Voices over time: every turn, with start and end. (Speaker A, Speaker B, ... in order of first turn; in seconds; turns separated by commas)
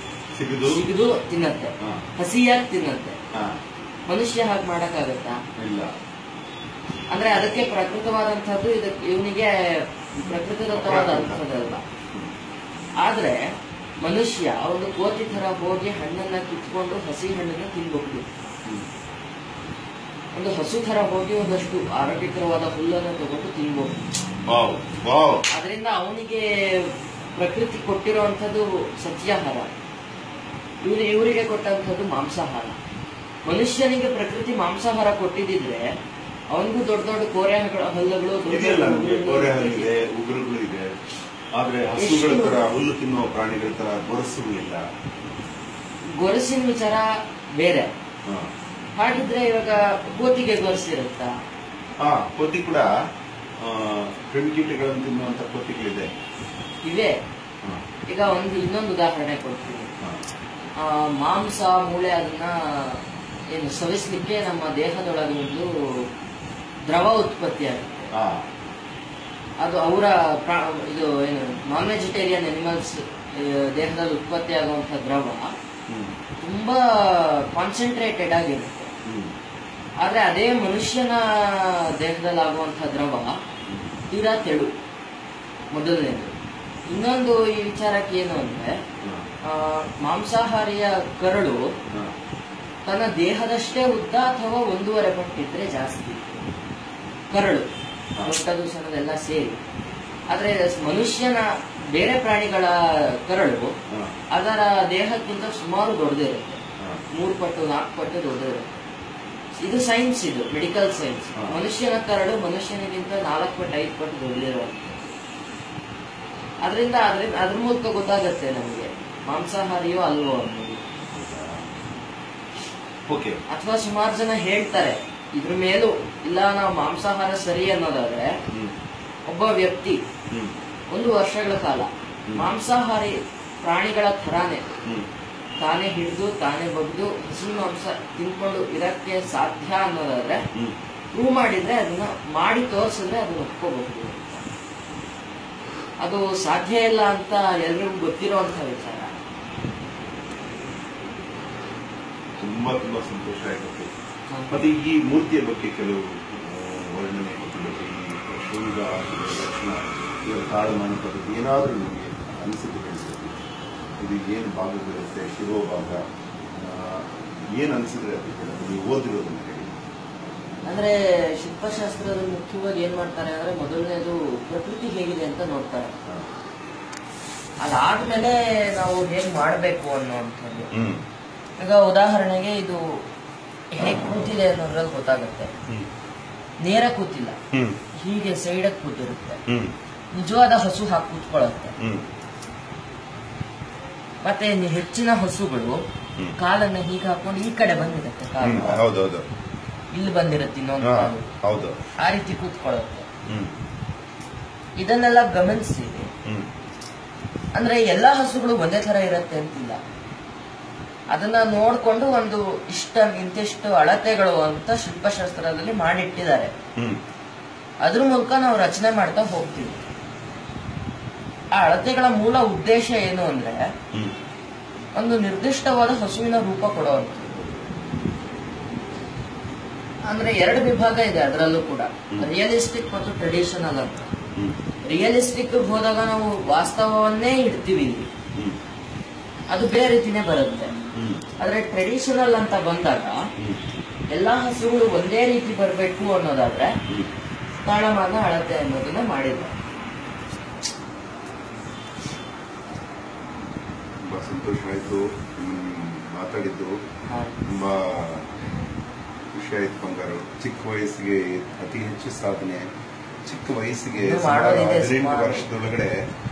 Speaker A: 0.3-0.8, Speaker B: 0.7-3.2, Speaker A: 3.3-3.6, Speaker B: 4.1-5.4, Speaker A: 5.6-5.9, Speaker B: 7.1-11.8, Speaker A: 10.2-11.4, Speaker B: 13.0-13.5, Speaker B: 14.0-18.3, Speaker B: 20.3-24.0, Speaker A: 24.4-25.4, Speaker B: 25.5-29.7, Speaker B: 30.8-32.8, Speaker B: 33.5-35.9, Speaker B: 36.5-39.9, Speaker A: 38.5-41.0, Speaker A: 41.5-44.9, Speaker B: 42.0-42.7, Speaker B: 46.2-47.9, Speaker B: 49.0-51.3, Speaker A: 52.0-52.9, Speaker A: 53.6-56.1, Speaker B: 56.8-57.2, Speaker B: 58.1-59.9, Speaker B: 60.8-66.0, Speaker B: 66.9-68.1, Speaker A: 68.1-68.5, Speaker B: 69.6-75.5, Speaker A: 75.9-76.2, Speaker B: 76.4-78.9, Speaker A: 79.1-79.3, Speaker B: 80.0-83.4, Speaker A: 83.7-83.9, Speaker B: 84.1-84.7, Speaker B: 85.7-86.3, Speaker B: 86.9-88.8, Speaker A: 89.0-89.3, Speaker B: 89.5-91.7, Speaker B: 92.8-96.5, Speaker B: 97.3-97.7, Speaker B: 98.2-99.6, Speaker B: 100.3-103.8, Speaker B: 104.3-106.6, Speaker B: 107.1-108.8, Speaker B: 109.6-115.0, Speaker A: 111.4-111.6, Speaker B: 116.6-120.8, Speaker A: 121.1-121.7, Speaker A: 123.1-123.4, Speaker B: 123.5-128.3, Speaker B: 129.3-130.0, Speaker B: 130.9-134.7, Speaker B: 135.6-140.4, Speaker B: 141.1-144.5, Speaker B: 146.0-149.2, Speaker A: 152.4-153.9, Speaker B: 154.3-154.6, Speaker A: 154.5-163.4, Speaker A: 164.0-166.0, Speaker A: 166.6-169.7, Speaker B: 170.7-175.9, Speaker B: 177.6-180.7, Speaker A: 180.7-181.0, Speaker B: 181.6-183.0, Speaker B: 183.7-185.5, Speaker B: 186.6-187.4, Speaker A: 187.5-187.8, Speaker B: 187.9-189.4, Speaker A: 189.5-189.8, Speaker B: 190.1-191.8, Speaker A: 191.8-192.1, Speaker B: 194.2-195.8, Speaker B: 196.4-198.8, Speaker A: 198.4-199.3, Speaker B: 199.9-201.3, Speaker A: 200.8-201.8, Speaker B: 202.0-203.1, Speaker A: 203.3-203.6, Speaker B: 204.8-206.1, Speaker B: 207.6-209.8, Speaker B: 211.1-216.5, Speaker B: 217.8-219.8, Speaker B: 221.5-223.7, Speaker B: 225.0-227.3, Speaker B: 230.1-234.1, Speaker B: 234.9-238.1, Speaker B: 239.5-240.7, Speaker A: 241.0-241.2, Speaker B: 241.4-243.2, Speaker B: 244.1-246.8, Speaker B: 247.6-249.6, Speaker A: 254.0-256.8, Speaker B: 257.1-257.4, Speaker A: 257.5-258.3, Speaker A: 259.3-262.7, Speaker A: 263.2-266.0, Speaker B: 264.0-265.5